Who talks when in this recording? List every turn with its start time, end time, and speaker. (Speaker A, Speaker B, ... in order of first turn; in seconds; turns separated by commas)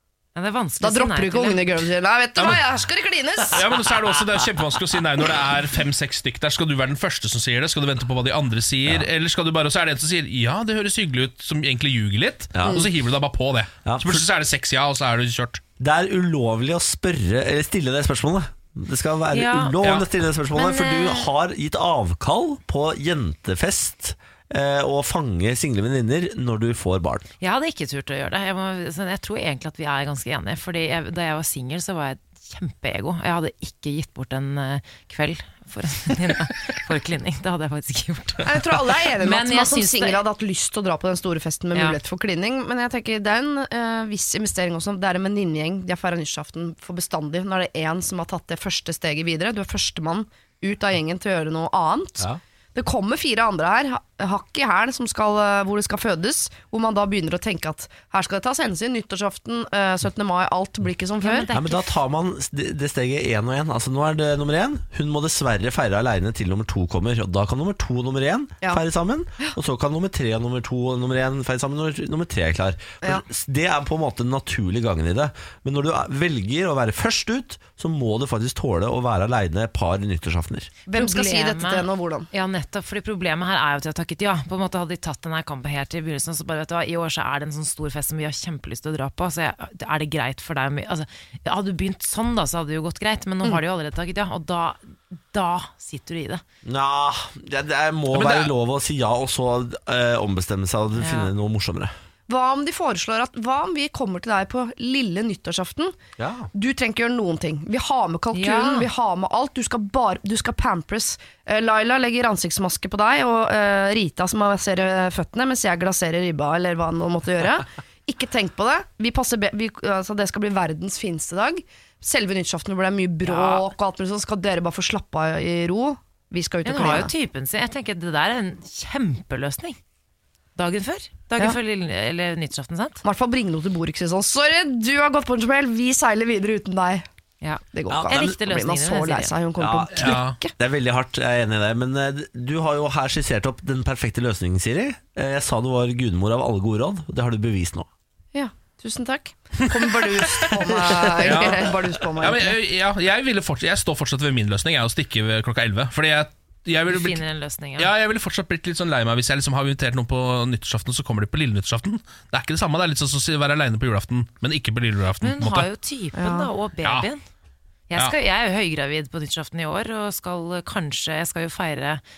Speaker A: 0.3-1.8, Speaker B: 0.8-3.6, Speaker C: 3.5-15.6, Speaker D: 12.6-12.9, Speaker D: 13.8-14.2, Speaker D: 15.8-27.3, Speaker A: 19.3-19.8, Speaker A: 20.5-21.3, Speaker A: 27.4-38.6, Speaker B: 38.4-61.5, Speaker A: 39.1-40.2, Speaker A: 61.2-62.0, Speaker D: 61.5-80.7, Speaker B: 80.9-82.3, Speaker A: 80.9-96.4, Speaker D: 96.6-101.9, Speaker C: 98.1-98.5, Speaker A: 101.0-101.3, Speaker B: 102.3-106.0, Speaker D: 106.2-106.5, Speaker B: 106.5-127.1, Speaker A: 108.3-108.9, Speaker A: 123.2-123.7, Speaker A: 126.6-129.8, Speaker A: 130.6-133.0, Speaker B: 133.0-137.1, Speaker A: 137.4-139.3, Speaker B: 137.7-140.5, Speaker D: 137.9-138.3, Speaker D: 139.6-147.9, Speaker C: 139.9-140.4, Speaker B: 148.3-152.6, Speaker C: 151.2-157.2, Speaker A: 156.9-157.9, Speaker C: 157.8-165.7, Speaker A: 165.2-167.2, Speaker B: 166.2-166.5, Speaker A: 167.9-172.0